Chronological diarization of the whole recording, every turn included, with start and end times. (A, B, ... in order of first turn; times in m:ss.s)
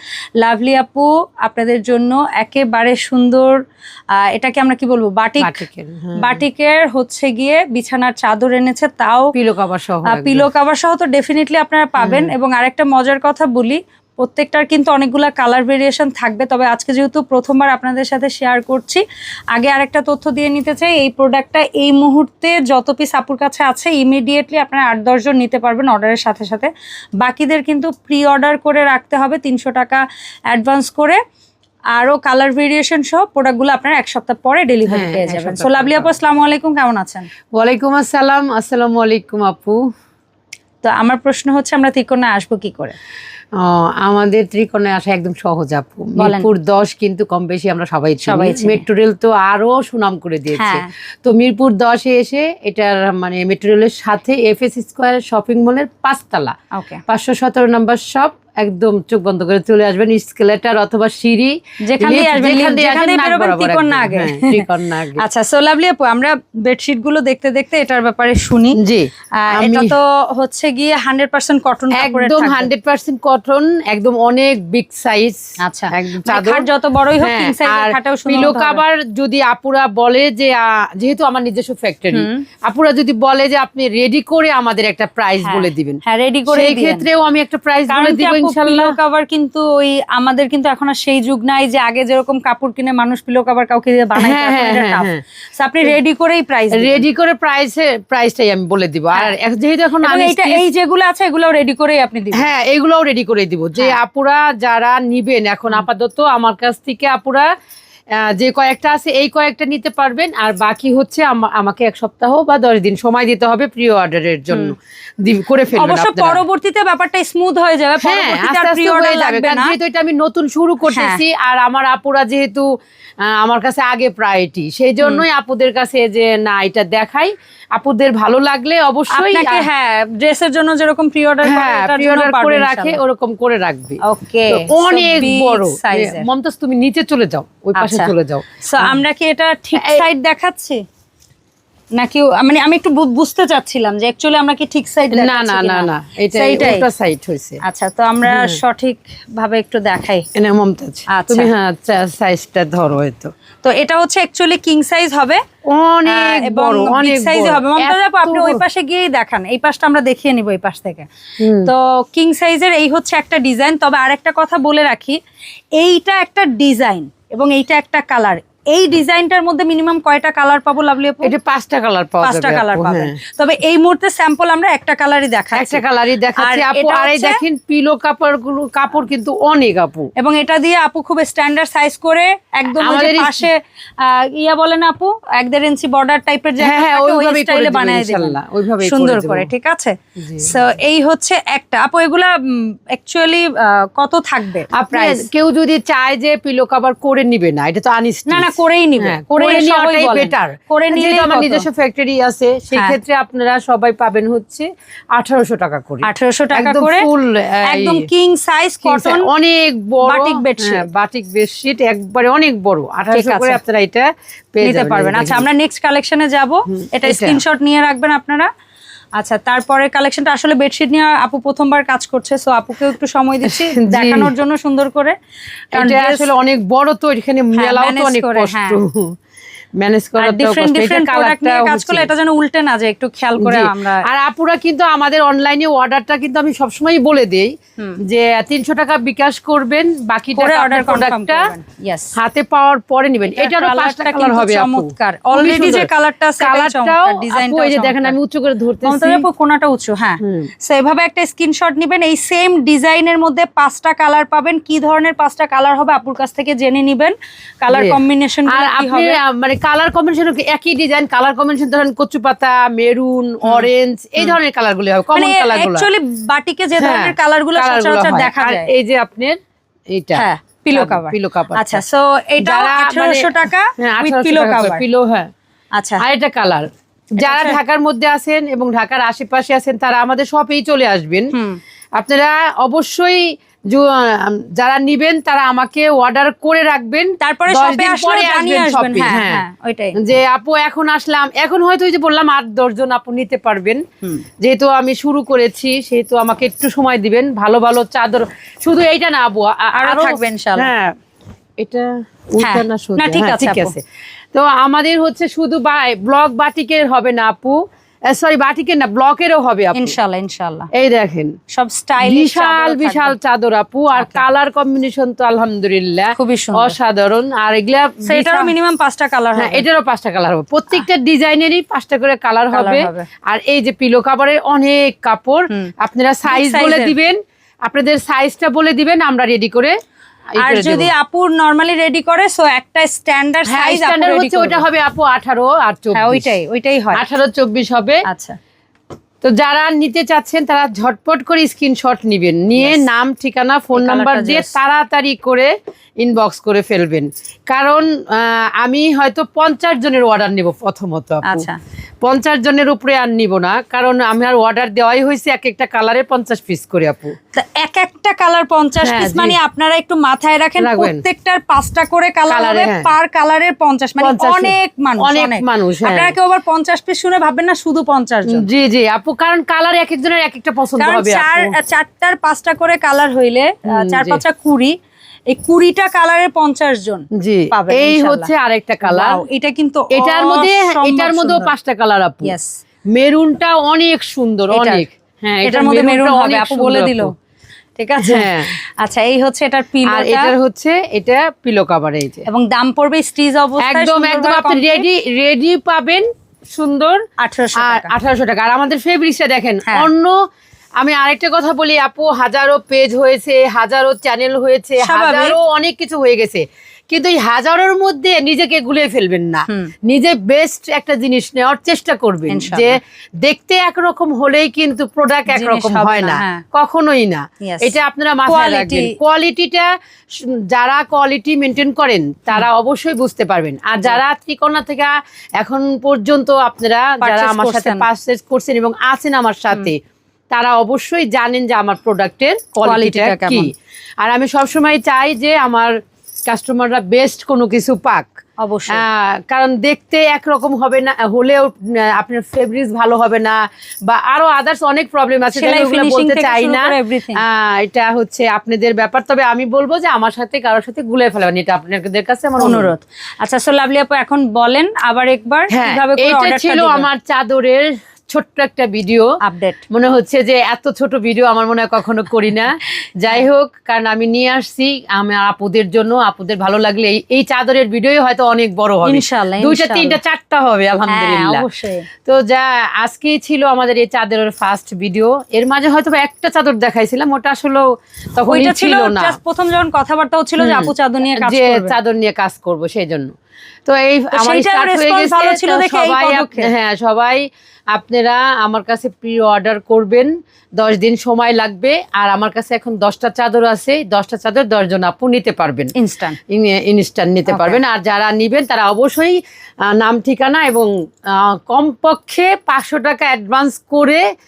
0:00.4-0:03.6 A
0:04.2-0:05.6 A
0:05.4-0:06.4 B
0:06.2-0:09.3 A
0:09.3-0:10.5 B
0:10.1-0:19.0 A
0:12.0-0:12.3 B
0:19.5-0:31.2 A
0:31.9-0:37.3 A
0:34.9-0:36.1 B
0:37.6-0:39.9 B
0:40.8-0:43.0 A
0:43.6-0:56.5 B
0:46.2-0:46.5 A
0:48.2-0:48.8 A
0:50.6-0:50.9 A
0:56.7-0:57.0 A
0:57.1-1:05.2 B
1:01.9-1:08.8 A
1:08.8-1:10.0 B
1:09.4-1:12.7 A
1:11.9-1:15.4 B
1:15.6-1:18.8 A
1:15.9-1:16.7 B
1:17.2-1:29.0 B
1:22.1-1:22.4 A
1:25.4-1:27.1 A
1:27.9-1:37.0 A
1:34.2-1:35.2 B
1:36.7-1:40.6 B
1:40.0-1:42.5 A
1:42.3-1:47.5 B
1:48.2-1:56.4 B
1:55.7-1:59.8 A
1:58.0-2:02.7 B
2:00.9-2:01.2 A
2:03.2-2:09.7 B
2:09.1-2:13.0 A
2:11.4-2:19.0 B
2:14.0-2:16.3 A
2:17.8-2:20.8 A
2:19.8-2:20.0 B
2:22.0-2:26.9 A
2:25.1-2:27.6 B
2:27.6-2:30.3 A
2:28.2-2:28.6 B
2:30.4-2:33.3 B
2:31.1-2:31.5 A
2:33.6-2:35.4 A
2:35.6-2:38.6 B
2:36.1-2:41.1 A
2:41.4-2:41.7 B
2:41.6-2:45.2 A
2:45.8-2:51.3 A
2:51.2-2:53.2 B
2:52.2-2:55.8 A
2:55.5-3:00.1 B
2:56.4-2:57.4 A
3:00.2-3:15.3 A
3:02.8-3:03.5 B
3:06.6-3:09.5 B
3:10.2-3:10.6 B
3:14.8-3:28.0 B
3:18.3-3:21.7 A
3:22.7-3:23.0 A
3:26.0-3:27.1 A
3:27.7-3:29.3 A
3:28.8-3:35.5 B
3:30.0-3:30.9 A
3:33.1-3:33.6 A
3:34.6-3:38.5 A
3:36.7-3:37.4 B
3:39.2-3:45.2 A
3:43.5-3:44.3 B
3:45.7-3:46.3 A
3:45.7-3:49.2 B
3:47.5-3:48.8 A
3:49.8-3:52.1 B
3:50.2-3:54.0 A
3:53.4-3:57.5 B
3:58.0-4:01.5 B
4:00.4-4:02.2 A
4:02.2-4:05.9 B
4:03.4-4:08.2 A
4:06.4-4:09.2 B
4:08.8-4:19.2 A
4:10.2-4:10.5 B
4:17.7-4:25.9 B
4:23.4-4:24.4 A
4:25.1-4:28.7 A
4:26.8-4:29.4 B
4:29.9-4:31.8 B
4:30.2-4:34.8 A
4:32.4-4:35.3 B
4:35.8-4:36.0 A
4:36.0-4:41.3 B
4:37.2-4:37.6 A
4:41.3-4:41.6 A
4:42.0-4:49.4 B
4:47.2-4:50.0 A
4:50.0-4:53.8 B
4:54.4-5:01.0 B
4:59.8-5:00.7 A
5:01.6-5:03.8 B
5:02.4-5:03.7 A
5:04.3-5:10.0 B
5:09.7-5:10.7 A
5:10.7-5:11.3 B
5:11.5-5:13.2 A
5:12.0-5:18.5 B
5:13.9-5:14.2 A
5:16.2-5:16.8 A
5:18.0-5:19.6 A
5:19.4-5:29.8 B
5:22.5-5:23.1 A
5:26.3-5:26.9 A
5:30.4-5:30.9 B
5:30.4-5:34.7 A
5:33.5-5:36.3 B
5:36.0-5:37.1 A
5:37.0-5:38.0 B
5:38.1-5:38.4 A
5:39.2-5:51.5 B
5:42.6-5:42.8 A
5:43.7-5:44.6 A
5:51.2-5:51.6 A
5:52.0-5:57.2 B
5:57.4-6:08.5 A
5:58.8-5:59.4 B
6:00.6-6:01.0 B
6:02.3-6:02.9 B
6:04.0-6:06.2 B
6:08.3-6:11.5 B
6:10.8-6:14.8 A
6:13.7-6:14.2 B
6:15.3-6:18.3 A
6:17.1-6:19.2 B
6:18.8-6:21.5 A
6:19.9-6:22.4 B
6:22.2-6:22.5 A
6:22.9-6:27.1 B
6:24.5-6:24.8 A
6:25.4-6:27.1 A
6:27.8-6:30.3 A
6:28.0-6:28.6 B
6:29.9-6:32.3 B
6:32.3-6:34.9 A
6:33.6-6:37.0 B
6:37.2-6:37.9 A
6:37.6-6:40.2 B
6:40.8-7:09.8 B
6:44.8-6:45.4 A
6:52.3-6:52.8 A
6:55.3-6:56.4 A
6:57.4-6:57.8 A
6:58.3-6:59.0 A
7:07.0-7:07.9 A
7:10.3-7:15.7 B
7:12.6-7:13.5 A
7:16.3-7:18.1 B
7:18.4-7:18.8 A
7:18.7-7:32.7 B
7:25.4-7:27.2 A
7:32.4-7:36.9 A
7:35.5-7:39.1 B
7:39.2-7:39.6 A
7:39.7-7:51.5 B
7:48.8-7:50.0 A
7:50.9-7:51.9 A
7:52.1-7:59.2 B
7:58.3-8:01.8 A
8:00.4-8:03.1 B
8:03.7-8:15.7 B
8:04.1-8:06.5 A
8:15.8-8:16.2 A
8:16.3-8:24.0 B
8:17.3-8:17.6 A